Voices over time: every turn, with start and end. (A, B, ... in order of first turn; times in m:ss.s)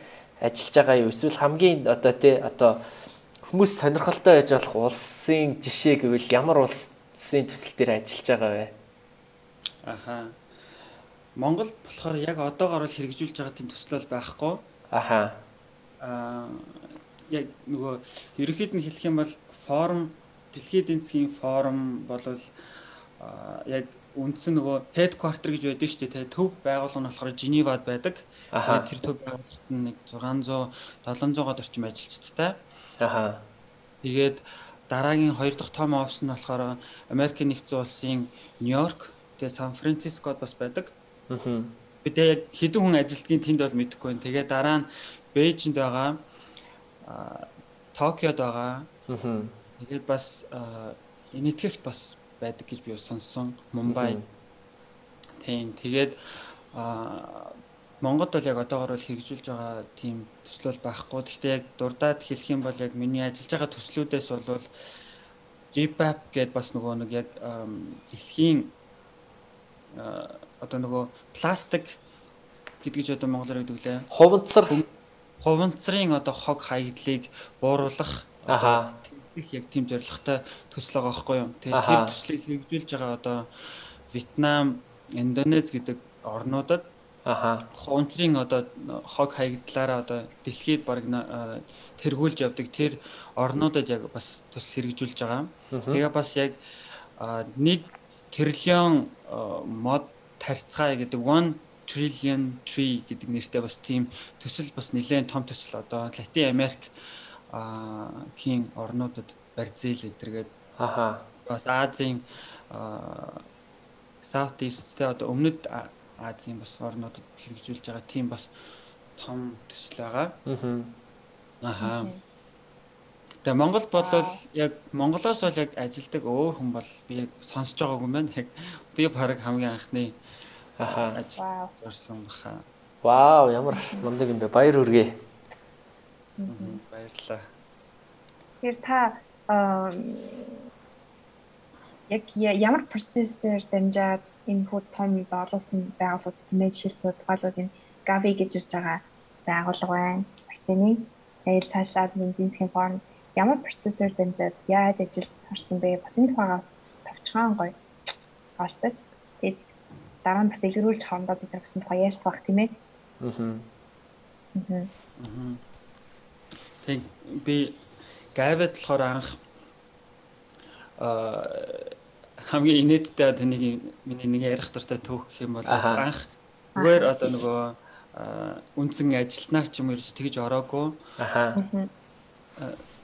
0:00.4-0:02.8 A
0:03.5-0:08.7 A
0:09.8-0:10.4 B
0:11.4-0:14.6 B
0:14.9-0:15.4 A
0:16.0-0:32.6 B
0:28.5-0:28.8 A
0:33.0-0:33.4 A
0:34.0-0:40.9 B
0:41.3-0:41.7 A
0:42.0-0:46.2 B
0:47.0-0:48.9 B
0:49.1-0:49.5 A
0:49.8-0:54.2 B
0:53.9-0:54.2 A
0:55.4-1:04.7 B
1:05.7-1:08.7 B
1:09.9-1:12.0 B
1:12.8-1:14.0 B
1:14.1-1:14.8 A
1:15.4-1:26.9 B
1:18.5-1:18.9 A
1:21.7-1:22.1 A
1:27.2-1:27.7 A
1:27.7-1:46.9 B
1:35.7-1:36.0 A
1:47.5-1:50.5 B
1:50.8-1:51.2 A
1:51.4-1:53.4 B
1:54.2-1:58.5 B
1:59.2-2:00.4 B
2:00.5-2:00.9 A
2:01.6-2:02.1 B
2:01.8-2:02.2 C
2:03.4-2:10.2 B
2:04.0-2:04.4 C
2:10.8-2:11.2 A
2:11.0-2:12.6 B
2:11.4-2:11.7 C
2:13.0-2:15.1 A
2:13.7-2:14.0 C
2:16.4-2:16.8 C
2:16.5-2:17.5 B
2:18.6-2:20.6 C
2:22.1-2:37.8 C
2:38.6-2:39.7 C
2:40.2-2:42.7 C
2:43.2-2:43.6 A
2:44.5-2:44.9 C
2:45.2-2:45.6 B
2:46.8-2:47.8 B
2:48.3-2:49.4 B
2:51.0-3:01.0 B
2:55.7-2:56.0 A
2:56.8-2:57.4 C
3:01.2-3:01.6 A
3:01.6-3:01.9 C